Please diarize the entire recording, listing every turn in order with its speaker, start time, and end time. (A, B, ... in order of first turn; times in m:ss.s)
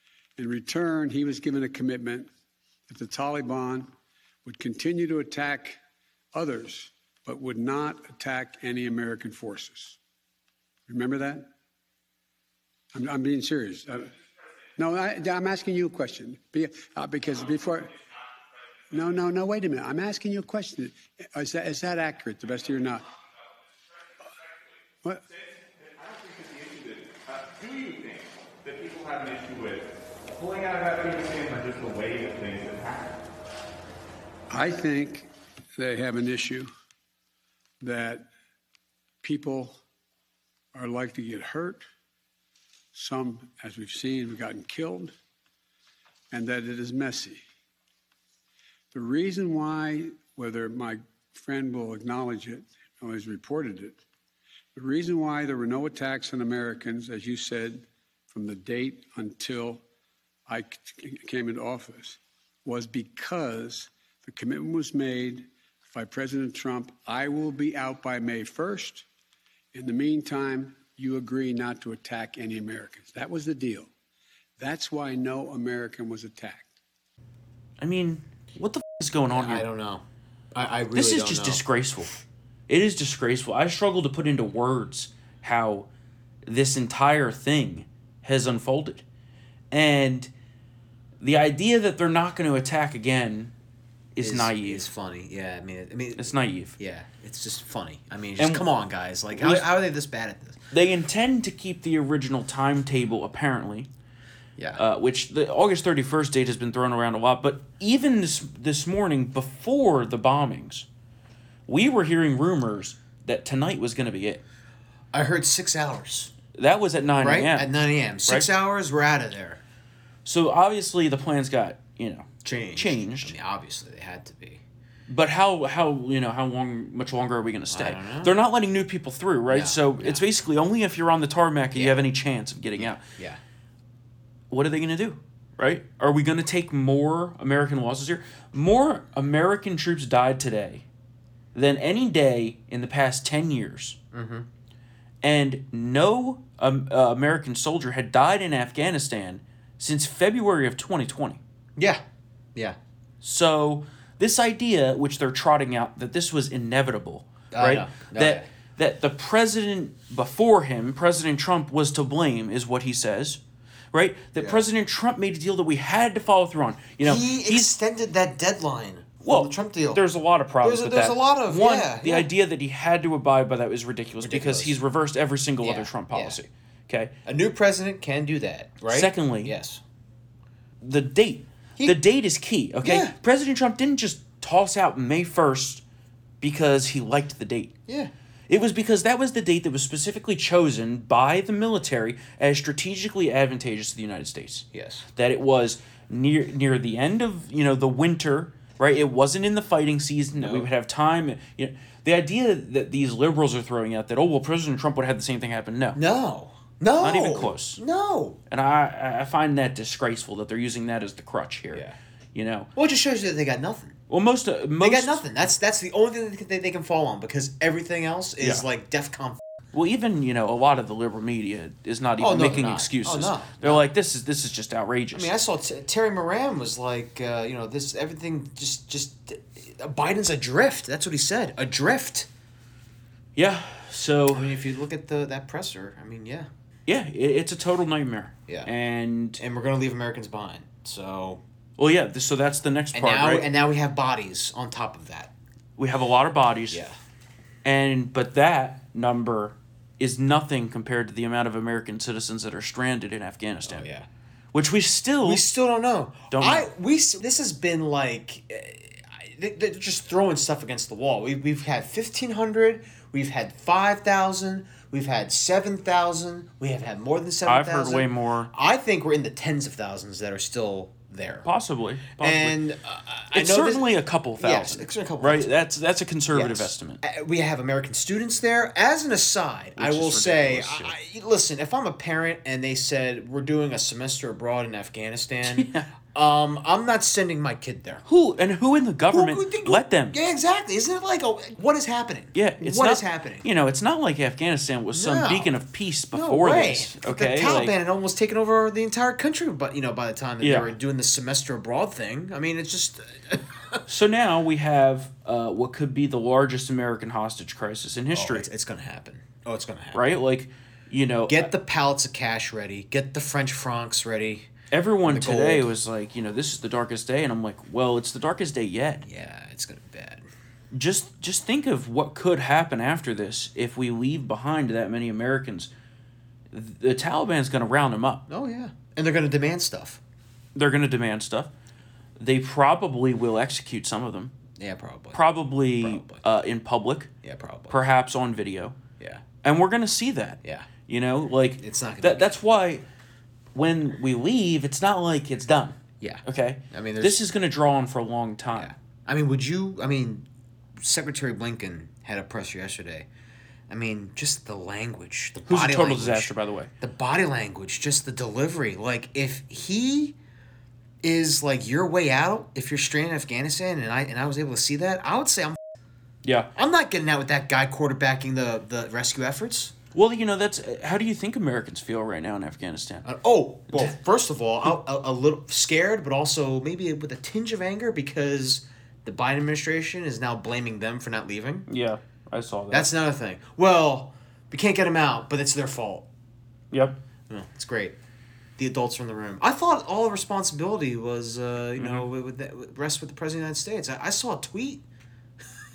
0:00.4-0:02.3 A
0:02.9-0:03.9 A
0:04.4-0:05.8 A
0:06.3-0:10.0 A
0:10.9-0:11.5 A
0:12.9-0:14.2 A
0:14.8-0:18.0 A
0:18.9-0:23.1 A
0:24.4-0:24.8 B
0:25.3-0:33.1 B
0:34.5-0:36.7 A
0:37.8-0:38.3 A
0:39.2-0:39.8 A
0:40.7-0:41.8 A
0:42.9-0:45.1 A
0:46.3-0:47.4 A
0:48.9-0:54.0 A
0:54.8-0:59.8 A
1:00.5-1:09.0 A
1:09.7-1:13.9 A
1:14.6-1:16.7 A
1:17.8-1:19.6 C
1:19.3-1:20.0 D
1:20.5-1:21.6 D
1:21.0-1:22.1 C
1:22.7-1:25.9 C
1:26.5-1:29.0 C
1:29.7-1:30.3 C
1:31.2-1:33.5 C
1:34.2-1:34.8 C
1:34.2-1:40.6 D
1:36.2-1:36.8 C
1:38.4-1:38.6 C
1:39.3-1:39.7 C
1:40.7-1:43.9 C
1:44.6-1:44.8 D
1:44.8-1:50.9 C
1:51.7-1:54.4 C
1:55.1-1:56.3 D
1:56.6-1:57.7 C
1:57.2-1:59.6 D
2:00.2-2:03.4 C
2:02.4-2:04.6 D
2:05.1-2:13.0 C
2:07.7-2:08.3 D
2:09.5-2:10.2 D
2:12.8-2:13.4 D
2:14.5-2:20.8 C
2:21.6-2:24.0 C
2:24.1-2:24.5 D
2:25.2-2:31.4 C
2:31.8-2:32.0 D
2:33.2-2:43.4 C
2:37.5-2:38.4 D
2:43.9-2:47.7 C
2:44.4-2:44.6 D
2:47.0-2:50.0 D
2:49.2-2:57.1 C
2:50.6-2:52.3 D
2:54.2-2:54.8 D
2:55.6-2:56.4 D
2:57.2-2:59.8 D
2:58.9-2:59.5 C
3:00.8-3:05.8 C
3:02.8-3:03.1 D
3:06.4-3:07.8 C
3:08.5-3:26.0 C
3:14.7-3:15.1 D
3:20.4-3:20.7 D
3:26.0-3:28.4 D
3:27.0-3:27.8 C
3:28.5-3:32.7 C
3:32.8-3:34.0 D
3:34.1-3:35.2 C
3:34.8-3:39.4 D
3:39.7-3:45.3 C
3:42.2-3:43.8 D
3:45.1-3:52.3 D
3:53.4-3:54.5 C
3:54.3-3:56.5 D
3:56.9-3:59.4 C
3:59.4-4:01.4 D
4:01.8-4:03.5 C
4:02.9-4:05.3 D
4:05.8-4:06.8 C
4:06.7-4:07.0 D
4:07.6-4:13.9 C
4:13.7-4:14.1 D
4:14.5-4:15.4 C
4:15.2-4:31.5 D
4:16.3-4:16.7 C
4:27.5-4:28.5 C
4:31.4-4:32.6 C
4:32.2-4:33.9 D
4:33.3-4:37.0 C
4:34.4-4:35.5 D
4:36.3-4:48.0 D
4:39.8-4:41.0 C
4:45.4-4:45.9 C
4:48.0-4:50.2 C
4:49.1-4:53.5 D
4:52.3-4:57.7 C
4:54.9-4:55.5 D
4:56.1-5:03.8 D
5:00.4-5:00.7 C
5:03.9-5:08.4 C
5:08.1-5:10.0 D
5:09.9-5:11.5 C
5:11.3-5:14.5 D
5:14.7-5:19.0 C
5:15.1-5:15.7 D
5:19.0-5:20.3 D
5:20.7-5:25.7 C
5:26.5-5:28.3 C
5:28.3-5:30.0 D
5:30.6-5:31.5 C
5:32.2-5:34.4 C
5:34.6-5:36.2 D
5:35.1-5:37.1 C
5:37.2-5:37.8 D
5:37.7-5:38.8 C
5:39.4-5:42.8 C
5:41.6-5:42.4 D
5:43.6-5:48.7 C
5:46.0-5:47.2 D
5:48.6-5:50.3 D
5:50.8-5:53.1 D
5:53.7-6:00.2 D
5:55.5-5:56.7 C
6:01.0-6:05.6 D
6:06.2-6:06.5 C
6:06.6-6:09.7 D
6:09.9-6:13.1 C
6:13.0-6:21.7 D
6:21.7-6:22.9 C
6:22.7-6:26.1 D
6:26.7-6:27.0 C
6:27.3-6:28.0 D
6:28.6-6:34.8 D
6:31.8-6:32.1 C